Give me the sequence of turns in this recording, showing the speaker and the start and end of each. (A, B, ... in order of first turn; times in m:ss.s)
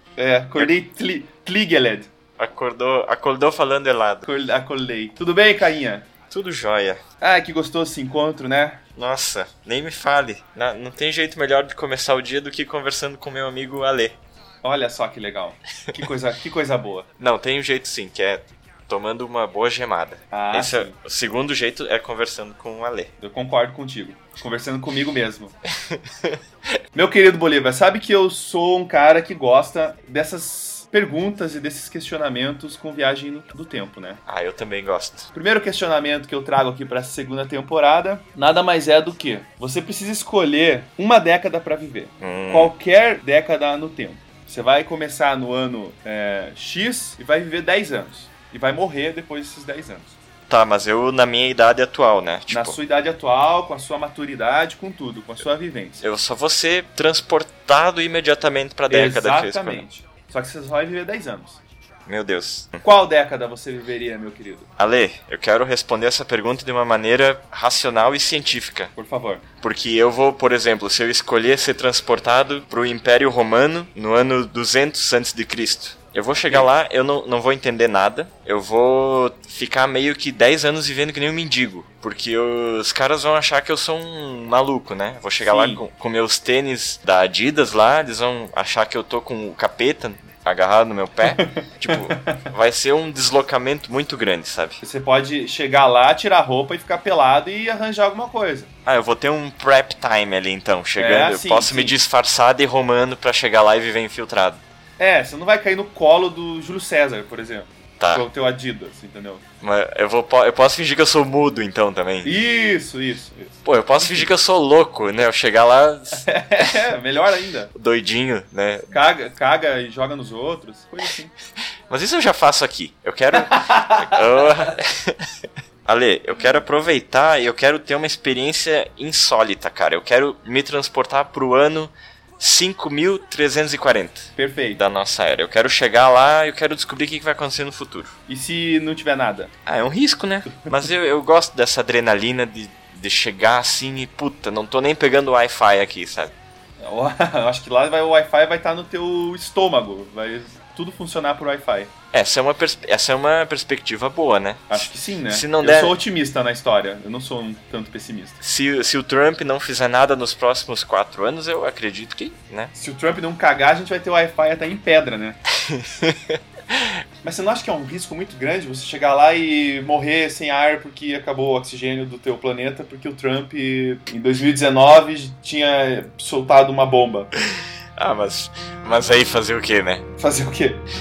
0:00.2-0:02.1 A
0:02.4-0:04.3 B
0:04.2-0:06.1 A
0:06.3-0:07.0 B
0:07.2-0:08.8 A
0:09.0-0:14.2 B
0:14.6-0:17.1 A
0:17.2-0:23.1 B
0:20.3-0:21.0 A
0:23.2-0:25.6 A
0:25.9-0:26.4 B
0:26.9-0:34.2 A
0:34.3-0:35.3 B
0:35.3-0:50.2 A
0:42.2-0:42.7 B
0:50.5-0:52.8 B
0:52.5-0:56.0 A
0:56.0-0:59.9 B
0:58.9-1:01.6 A
1:02.1-1:02.8 B
1:02.8-1:04.7 A
1:04.8-1:08.9 B
1:09.0-1:09.4 A
1:09.6-1:34.8 B
1:16.4-1:16.7 A
1:25.4-1:25.8 A
1:31.3-1:32.4 A
1:34.8-1:38.7 A
1:38.9-1:44.6 B
1:41.0-1:42.0 A
1:45.0-1:49.4 A
1:48.0-1:48.3 B
1:49.6-1:52.3 B
1:52.2-1:54.3 A
1:53.6-1:56.8 B
1:56.3-1:57.7 A
1:57.8-1:58.9 B
1:58.9-2:01.3 A
2:01.9-2:05.2 B
2:03.4-2:04.2 A
2:05.9-2:18.2 B
2:14.4-2:14.8 A
2:18.3-2:19.5 A
2:19.7-2:26.3 B
2:26.8-2:31.9 A
2:32.1-2:36.0 B
2:34.7-2:38.4 A
2:38.4-2:42.7 B
2:42.7-2:45.4 A
2:45.7-2:46.9 B
2:47.2-2:57.3 A
2:58.0-3:00.0 B
3:00.2-3:00.8 A